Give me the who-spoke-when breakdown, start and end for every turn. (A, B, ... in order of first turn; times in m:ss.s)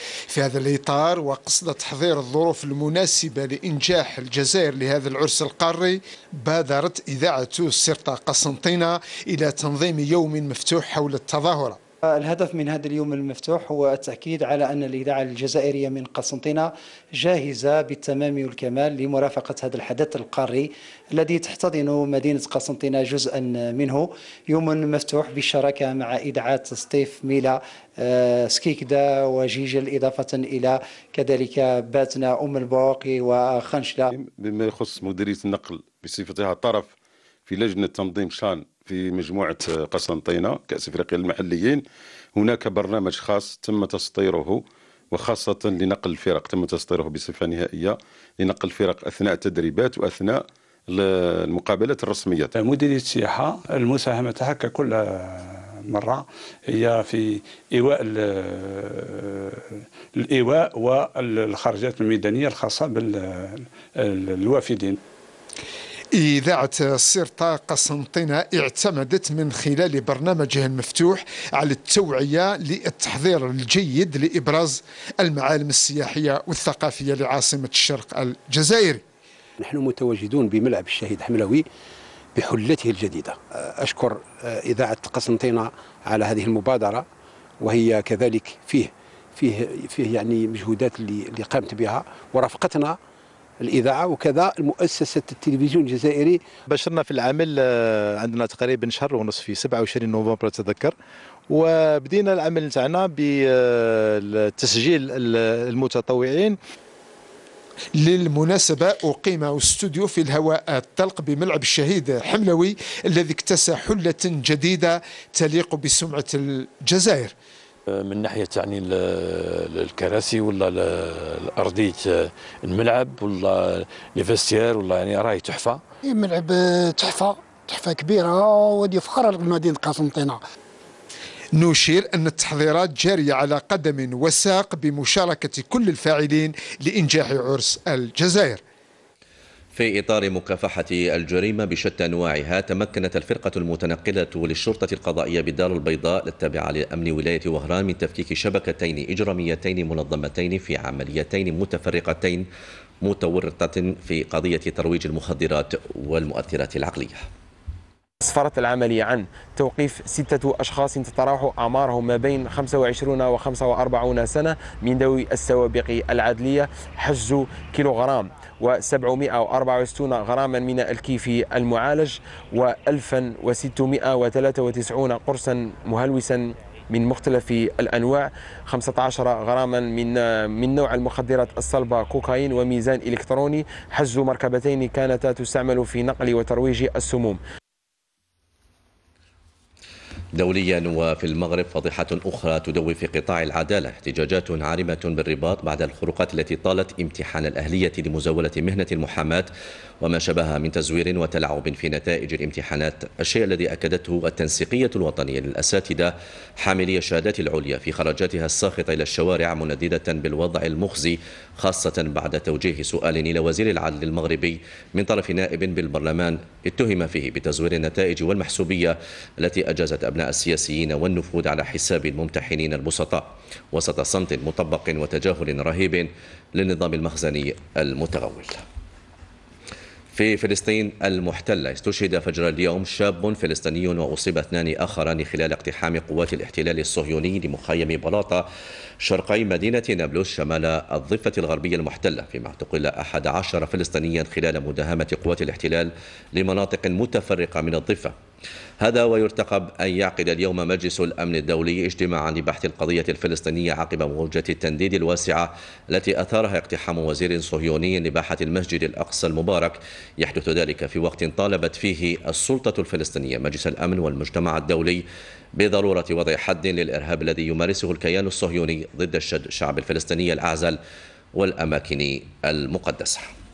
0:00.3-0:11.8 A
0:12.1-0:34.1 B
0:34.1-0:36.9 C
0:37.4-0:41.8 C
0:42.3-0:52.5 C
0:52.6-1:05.0 D
1:06.1-1:19.0 A
1:19.6-1:21.6 E
1:22.4-1:27.0 E
1:27.6-1:33.0 E
1:33.6-1:36.4 E
1:36.7-1:40.9 F
1:41.5-1:46.6 F
1:48.0-1:57.3 A
1:57.9-2:05.8 G
2:06.0-2:10.4 H
2:11.5-2:18.6 A
2:19.8-2:32.4 I
2:33.0-2:37.3 I
2:38.2-3:07.4 J
3:10.4-3:19.5 I
3:20.0-3:48.6 I
3:50.1-3:58.4 I
3:59.0-4:08.1 I
4:08.8-4:25.0 I
4:25.6-4:30.8 I
4:31.3-4:33.3 I